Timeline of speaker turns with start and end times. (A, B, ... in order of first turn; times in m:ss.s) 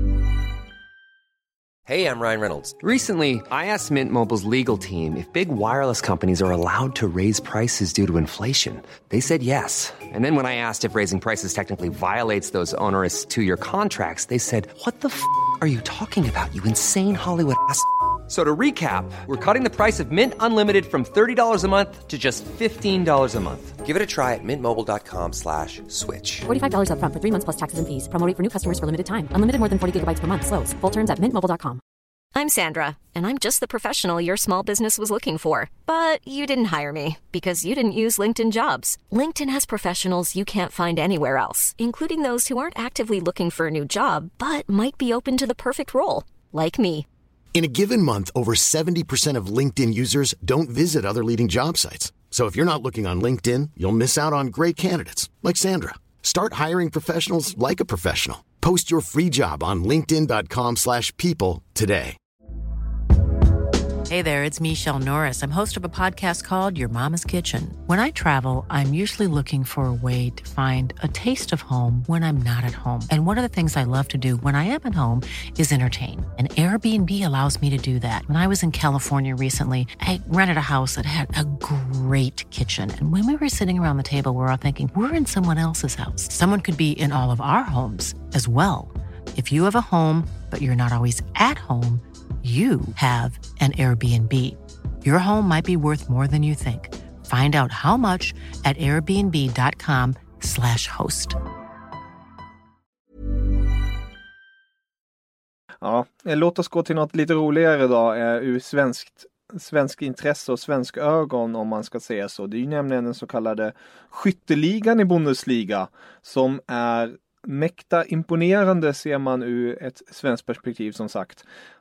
0:01.9-0:26.4 A
0:26.5-0:31.8 B
0:32.3-0:47.0 C
0:47.5-1:02.2 D
1:04.1-1:41.4 E
1:45.8-2:01.4 F